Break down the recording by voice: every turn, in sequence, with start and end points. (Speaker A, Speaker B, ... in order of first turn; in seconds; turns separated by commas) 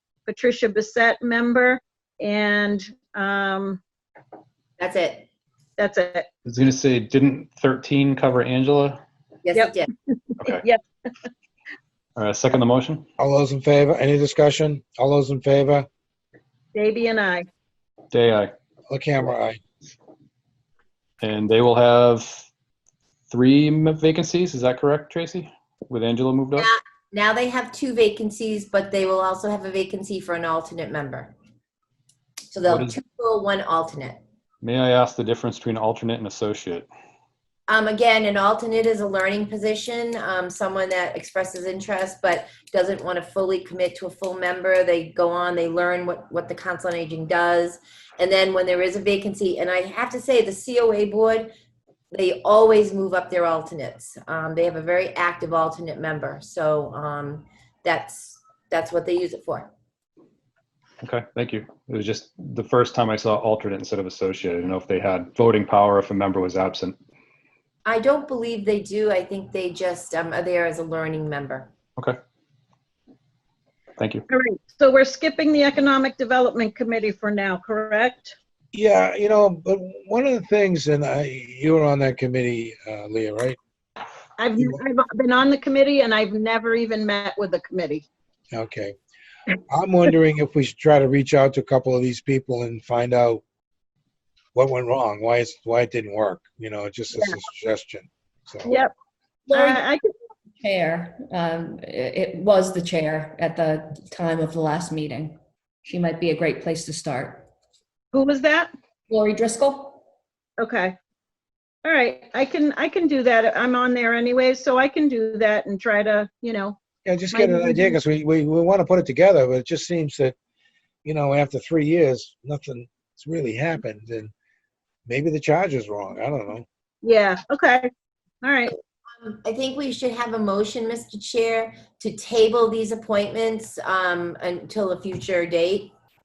Speaker A: 0.2-3.8, Speaker B: 4.8-5.3, Speaker A: 5.8-6.3, Speaker C: 6.5-9.0, Speaker B: 9.4-9.9, Speaker A: 10.4-10.8, Speaker C: 12.2-13.0, Speaker D: 13.2-15.9, Speaker A: 16.7-17.4, Speaker C: 18.1-18.5, Speaker D: 18.9-19.6, Speaker C: 21.2-22.5, Speaker C: 23.3-26.7, Speaker B: 26.6-31.3, Speaker B: 32.5-34.2, Speaker C: 32.7-33.0, Speaker C: 34.6-36.9, Speaker B: 37.7-51.5, Speaker B: 52.1-59.7, Speaker C: 61.0-67.0, Speaker B: 67.8-71.7, Speaker C: 74.0-74.2, Speaker A: 74.3-78.3, Speaker D: 78.7-83.6, Speaker A: 84.4-88.0, Speaker D: 88.5-88.9, Speaker D: 89.7-93.4, Speaker D: 94.5-98.8, Speaker A: 98.7-98.9, Speaker E: 99.5-99.8, Speaker A: 99.5-100.1, Speaker E: 100.5-107.4, Speaker A: 108.1-108.7, Speaker E: 109.1-110.0, Speaker A: 110.6-110.9, Speaker A: 111.8-116.8, Speaker D: 117.0-120.3, Speaker A: 117.3-118.0, Speaker D: 121.0-124.3, Speaker D: 125.0-126.7, Speaker A: 127.0-127.9, Speaker A: 128.4-128.7, Speaker B: 129.1-135.9